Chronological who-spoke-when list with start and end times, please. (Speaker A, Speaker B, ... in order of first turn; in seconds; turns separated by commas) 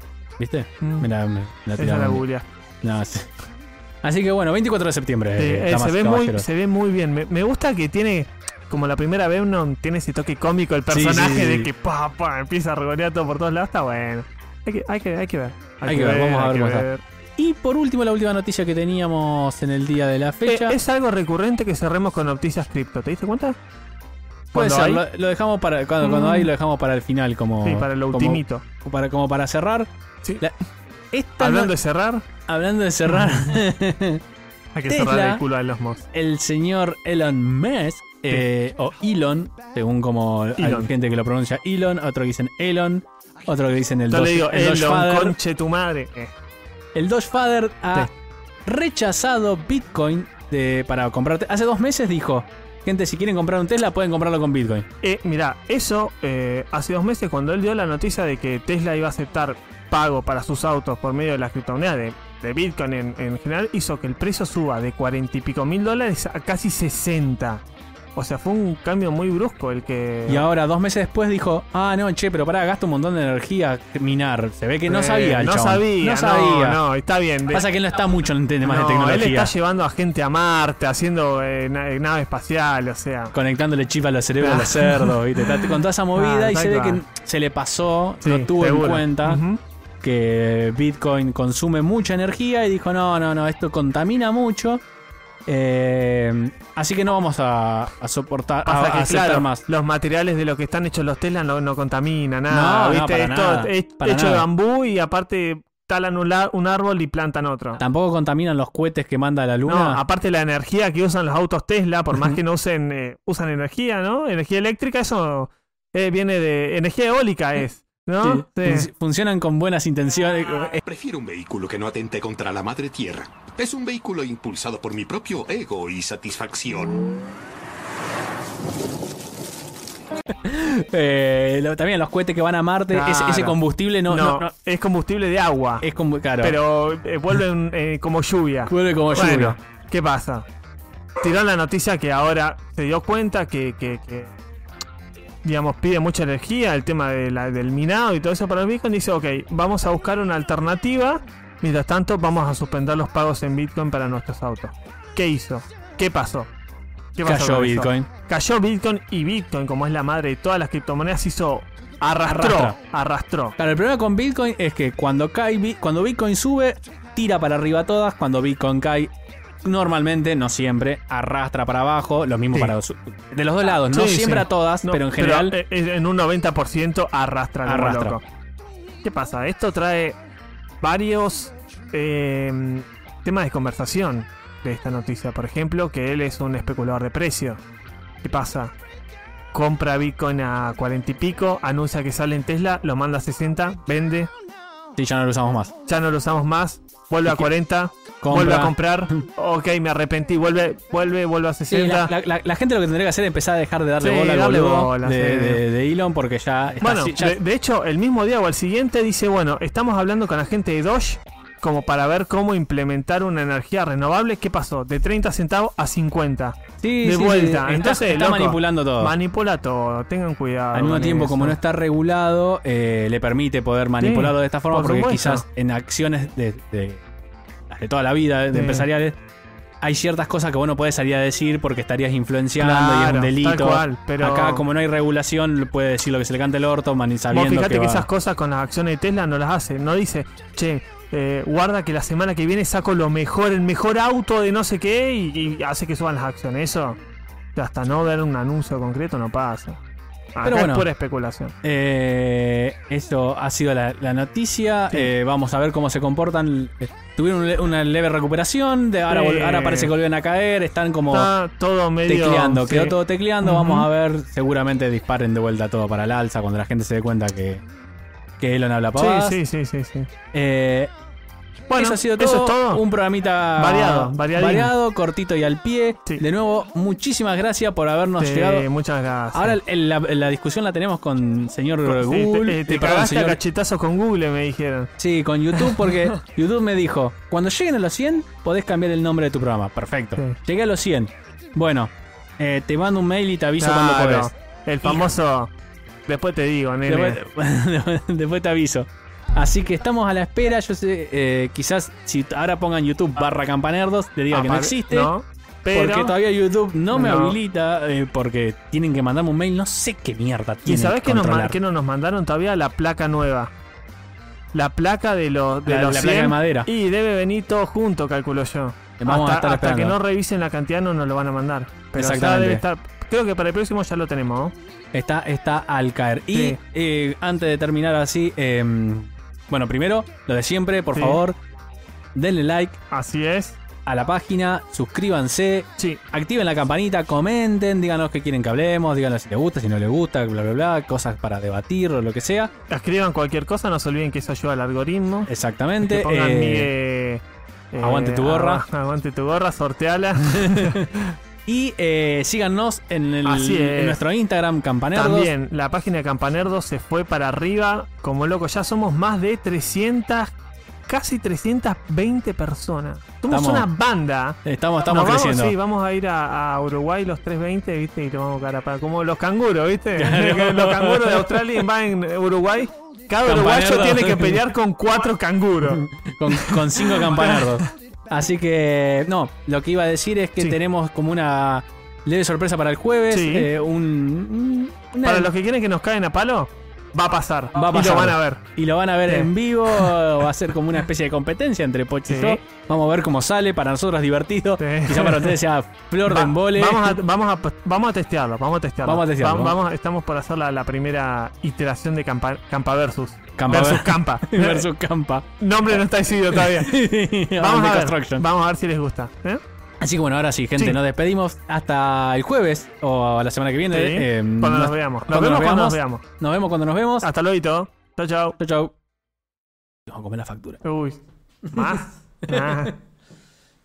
Speaker A: 0.4-2.2, Speaker B: 0.8-1.1, Speaker B: 1.8-2.5, Speaker A: 2.8-3.3, Speaker A: 4.0-6.5, Speaker B: 5.4-17.0, Speaker A: 10.9-11.7, Speaker A: 15.8-16.9, Speaker A: 17.4-20.8, Speaker B: 20.4-23.6, Speaker B: 24.5-25.0, Speaker A: 24.5-30.5, Speaker B: 26.0-26.5, Speaker B: 27.6-28.6, Speaker A: 31.1-31.7, Speaker B: 31.4-32.2, Speaker A: 32.5-34.2, Speaker B: 33.0-33.6, Speaker B: 34.7-36.0, Speaker A: 34.9-35.4, Speaker A: 36.1-45.4, Speaker B: 40.6-40.9, Speaker B: 44.1-46.3, Speaker A: 46.9-48.1, Speaker A: 48.6-54.9, Speaker B: 55.0-67.6, Speaker B: 68.1-70.4, Speaker A: 70.3-76.8, Speaker B: 74.9-77.7, Speaker A: 77.5-79.5, Speaker B: 78.6-83.3, Speaker A: 83.3-89.4, Speaker B: 84.4-87.0, Speaker B: 88.2-89.6, Speaker A: 90.0-94.8, Speaker A: 95.5-99.6, Speaker B: 98.6-107.8, Speaker A: 102.5-104.5, Speaker A: 107.8-110.0, Speaker B: 109.7-118.9, Speaker A: 112.1-112.4, Speaker A: 118.2-120.8, Speaker C: 120.8-127.1, Speaker A: 130.3-134.5, Speaker B: 132.9-135.8, Speaker A: 135.8-136.6, Speaker B: 136.4-140.5, Speaker A: 138.7-139.6, Speaker B: 141.2-144.3, Speaker B: 145.4-156.5, Speaker B: 157.2-163.6, Speaker A: 157.2-158.1, Speaker A: 162.2-162.8, Speaker A: 163.6-169.1, Speaker A: 169.6-175.6, Speaker B: 173.9-178.2, Speaker A: 177.7-178.2, Speaker B: 179.0-180.2, Speaker B: 180.8-187.6, Speaker B: 188.2-188.7, Speaker B: 189.5-194.3, Speaker A: 194.9-195.7, Speaker B: 195.9-202.1, Speaker A: 198.2-199.2, Speaker A: 201.7-207.4, Speaker B: 204.0-205.6, Speaker B: 206.8-221.6, Speaker A: 216.8-219.2, Speaker A: 220.7-227.0, Speaker B: 224.0-225.4, Speaker A: 227.7-229.2, Speaker B: 228.5-228.9, Speaker A: 229.8-238.1, Speaker B: 232.6-234.6, Speaker B: 237.3-247.0, Speaker B: 247.5-249.8, Speaker B: 250.3-251.5, Speaker A: 250.4-250.9, Speaker A: 251.6-261.3, Speaker B: 259.1-259.9, Speaker B: 261.1-263.9, Speaker A: 262.1-267.6, Speaker A: 268.4-269.4, Speaker B: 268.9-270.1, Speaker A: 270.3-270.9, Speaker A: 271.7-278.7, Speaker B: 271.7-272.8, Speaker B: 273.6-274.7, Speaker B: 278.2-279.6, Speaker A: 279.3-283.4, Speaker B: 281.9-284.9, Speaker A: 285.0-294.3, Speaker B: 285.5-285.9, Speaker B: 293.6-295.5, Speaker A: 294.8-295.1, Speaker B: 296.1-297.2, Speaker A: 296.9-305.1, Speaker B: 304.3-306.1, Speaker A: 305.7-311.6, Speaker B: 306.9-307.4, Speaker B: 310.6-313.5, Speaker B: 314.5-324.5, Speaker A: 315.6-316.7, Speaker A: 319.0-320.0, Speaker A: 321.9-322.6, Speaker A: 324.9-331.4, Speaker B: 326.3-326.6, Speaker B: 330.9-331.2, Speaker A: 332.1-332.8, Speaker B: 332.9-333.6, Speaker A: 333.8-342.5, Speaker B: 342.7-345.3, Speaker A: 345.2-346.7, Speaker B: 345.8-350.9, Speaker A: 347.8-348.6, Speaker A: 350.3-350.9, Speaker A: 351.4-355.3, Speaker B: 353.2-354.0, Speaker B: 354.9-360.3, Speaker B: 360.9-377.7, Speaker A: 363.3-363.7, Speaker A: 364.4-365.6, Speaker A: 369.9-371.6, Speaker A: 373.2-374.4, Speaker A: 375.7-385.3, Speaker B: 383.1-383.5, Speaker B: 385.0-388.4, Speaker A: 387.5-397.0, Speaker B: 389.1-390.0, Speaker B: 392.1-392.4, Speaker B: 394.6-395.4, Speaker B: 396.1-404.7, Speaker A: 398.8-399.6, Speaker A: 403.4-405.8, Speaker B: 405.4-406.8, Speaker A: 406.3-408.2, Speaker B: 407.4-409.4, Speaker A: 409.8-417.1, Speaker B: 413.7-416.0, Speaker B: 417.0-418.4, Speaker A: 418.4-418.7, Speaker A: 419.9-420.6, Speaker B: 420.6-422.8, Speaker A: 421.5-422.7